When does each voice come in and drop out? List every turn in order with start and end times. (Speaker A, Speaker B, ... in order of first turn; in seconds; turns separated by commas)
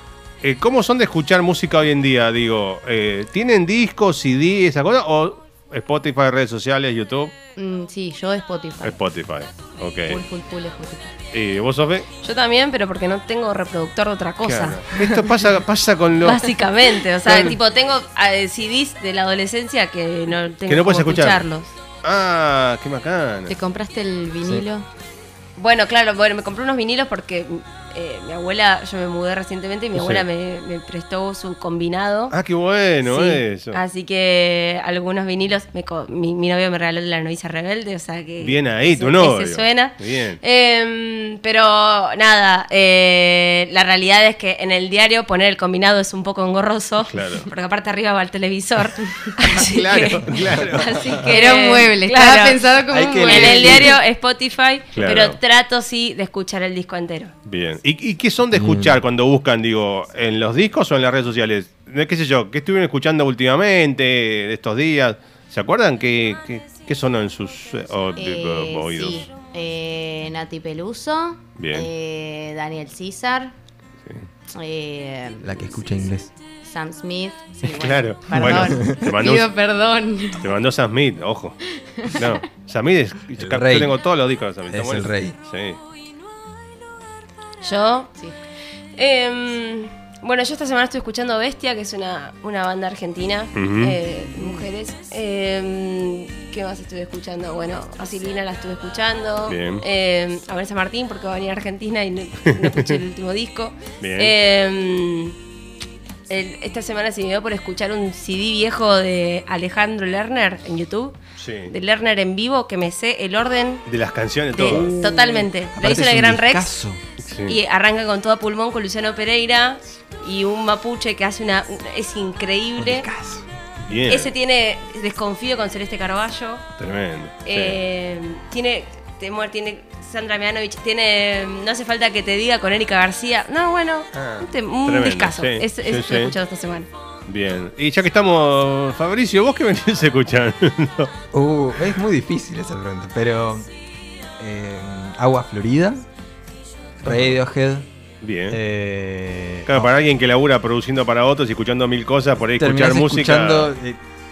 Speaker A: 0.4-7.3, Speaker B: 7.6-9.0, Speaker A: 8.8-10.2, Speaker B: 10.1-11.1, Speaker A: 11.3-12.1, Speaker C: 12.2-14.8, Speaker A: 14.4-16.6, Speaker C: 16.2-21.7, Speaker A: 17.2-17.6, Speaker A: 20.7-21.4, Speaker A: 22.0-23.5, Speaker B: 23.5-24.9, Speaker C: 25.6-32.4, Speaker A: 29.9-30.2, Speaker A: 32.3-33.8, Speaker C: 33.1-57.3, Speaker A: 38.4-40.4, Speaker A: 47.1-47.5, Speaker A: 49.6-51.0, Speaker D: 50.4-51.2, Speaker B: 51.3-54.0, Speaker D: 52.9-54.0, Speaker A: 55.0-55.4, Speaker A: 57.5-69.3, Speaker D: 58.5-59.0, Speaker B: 68.2-73.5, Speaker A: 71.6-71.9, Speaker B: 74.5-80.5, Speaker D: 75.4-76.3, Speaker A: 77.8-79.5, Speaker D: 78.3-79.1, Speaker A: 80.4-81.6, Speaker B: 81.8-82.4, Speaker A: 82.1-85.8, Speaker D: 83.4-84.0, Speaker D: 84.7-85.4, Speaker C: 87.6-88.1, Speaker C: 89.0-105.4, Speaker A: 93.6-94.0, Speaker B: 94.3-94.7, Speaker A: 99.5-99.8, Speaker A: 102.7-102.9, Speaker A: 104.0-104.3, Speaker C: 106.3-111.2, Speaker A: 111.4-111.7, Speaker C: 111.7-113.8, Speaker A: 113.9-114.9, Speaker C: 114.5-116.7, Speaker D: 114.6-117.0, Speaker A: 117.2-117.6, Speaker C: 117.5-123.1, Speaker D: 122.8-123.5, Speaker A: 123.9-124.3, Speaker C: 124.1-126.6, Speaker A: 126.8-127.8, Speaker C: 127.5-136.9, Speaker A: 134.1-136.3, Speaker A: 137.3-141.1, Speaker D: 141.3-143.7, Speaker D: 144.4-146.1, Speaker D: 147.0-147.9, Speaker A: 147.0-147.4, Speaker A: 148.2-148.6, Speaker D: 148.5-149.9, Speaker A: 149.7-153.7, Speaker D: 152.6-154.0